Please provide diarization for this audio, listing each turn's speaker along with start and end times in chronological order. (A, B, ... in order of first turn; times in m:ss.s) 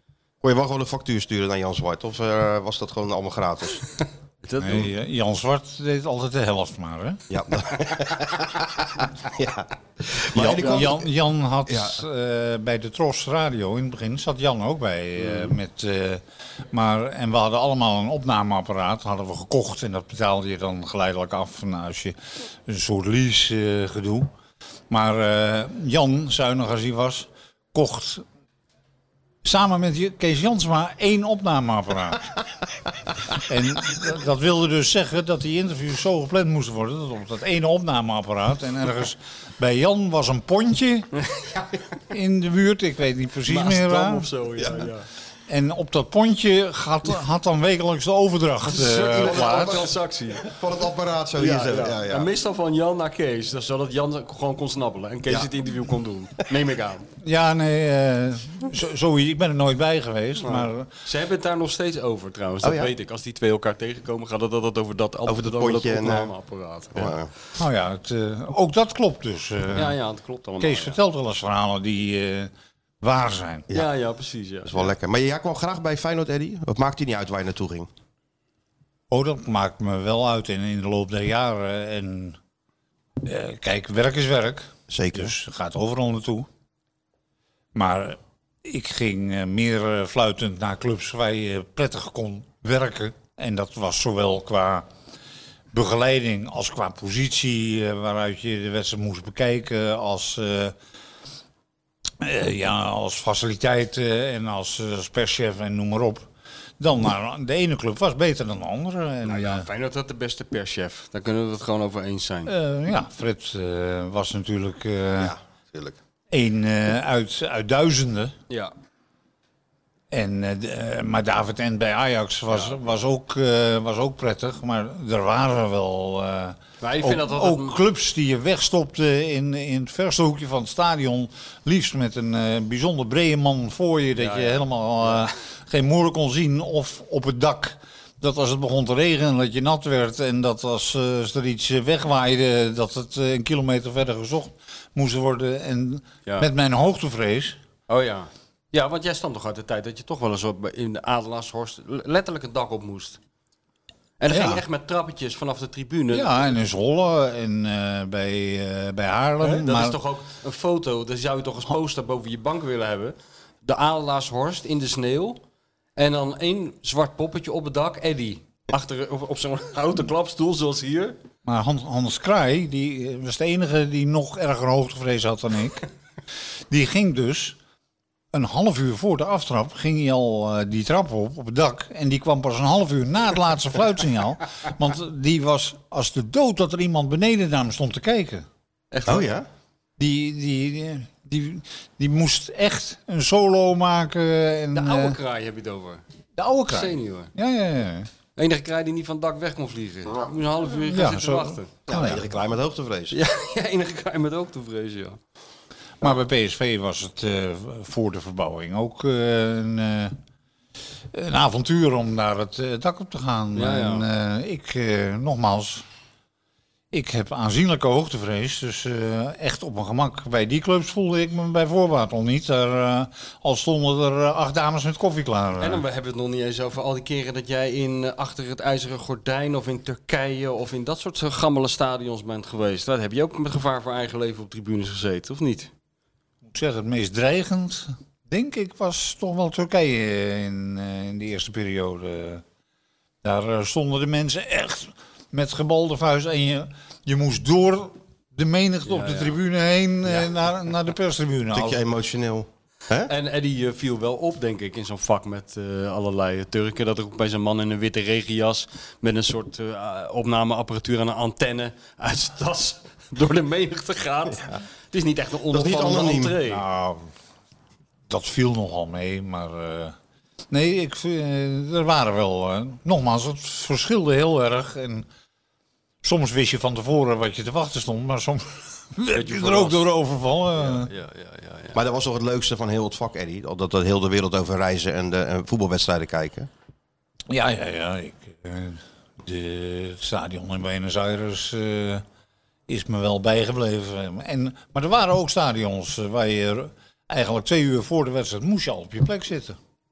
0:00.4-0:03.8 A
0:04.4-0:04.9 B
0:04.6-0:07.2 C
0:07.3-0:11.1 A
0:10.3-0:16.2 C
0:10.4-0:10.8 B
0:11.7-0:12.0 A
0:16.7-0:24.3 C
0:24.9-0:28.2 C
0:29.4-0:32.3 C
0:33.3-0:41.1 C
0:41.2-0:41.6 B
0:42.1-0:44.3 C
0:43.5-0:45.0 B
0:45.5-0:49.9 C
0:48.6-0:50.5 B
0:49.1-0:49.9 A
0:50.4-0:52.3 A
0:51.4-0:57.1 B
0:57.2-1:00.9 C
1:00.4-1:07.1 B
1:02.6-1:02.9 A
1:05.3-1:06.3 A
1:06.9-1:07.3 A
1:07.6-1:10.0 C
1:09.7-1:11.0 B
1:10.6-1:12.5 C
1:13.0-1:13.7 C
1:13.7-1:14.9 B
1:14.6-1:17.9 A
1:19.1-1:22.4 C
1:23.2-1:26.5 C
1:24.9-1:25.3 A
1:27.7-1:34.8 C
1:35.7-1:40.7 C
1:42.2-1:46.2 C
1:46.8-1:49.6 C
1:49.2-1:52.5 B
1:52.4-1:55.3 C
1:55.2-1:56.0 A
1:56.3-1:58.3 C
2:00.1-2:27.6 C
2:02.5-2:02.8 B
2:06.8-2:07.8 B
2:14.2-2:15.1 B
2:27.9-2:33.2 B
2:34.2-2:36.5 B
2:34.3-2:34.6 C
2:36.1-2:40.0 C
2:39.4-2:45.4 B
2:46.0-2:51.2 B
2:51.4-2:55.8 C
2:56.7-2:57.6 C
2:58.3-3:08.4 C
3:08.9-3:09.3 B
3:09.0-3:09.4 A
3:10.0-3:15.2 C
3:14.7-3:16.0 B
3:16.4-3:18.1 C
3:16.7-3:17.3 B
3:18.4-3:21.7 B
3:20.8-3:22.3 C
3:21.9-3:23.2 A
3:23.1-3:25.2 B
3:26.0-3:30.2 C
3:31.1-3:35.8 C
3:33.5-3:34.0 B
3:36.9-3:45.8 C
3:45.6-3:55.7 B
3:56.5-4:02.4 C
4:03.2-4:11.8 C
4:08.8-4:09.4 B
4:11.5-4:13.1 A
4:13.0-4:26.6 B
4:25.5-4:26.4 A
4:26.5-4:27.1 C
4:28.1-4:29.9 C
4:30.5-4:35.1 C
4:36.0-4:40.9 C
4:39.1-4:39.8 B
4:40.5-4:41.8 B
4:41.7-4:46.5 A
4:47.3-4:52.0 C
4:52.7-4:59.6 C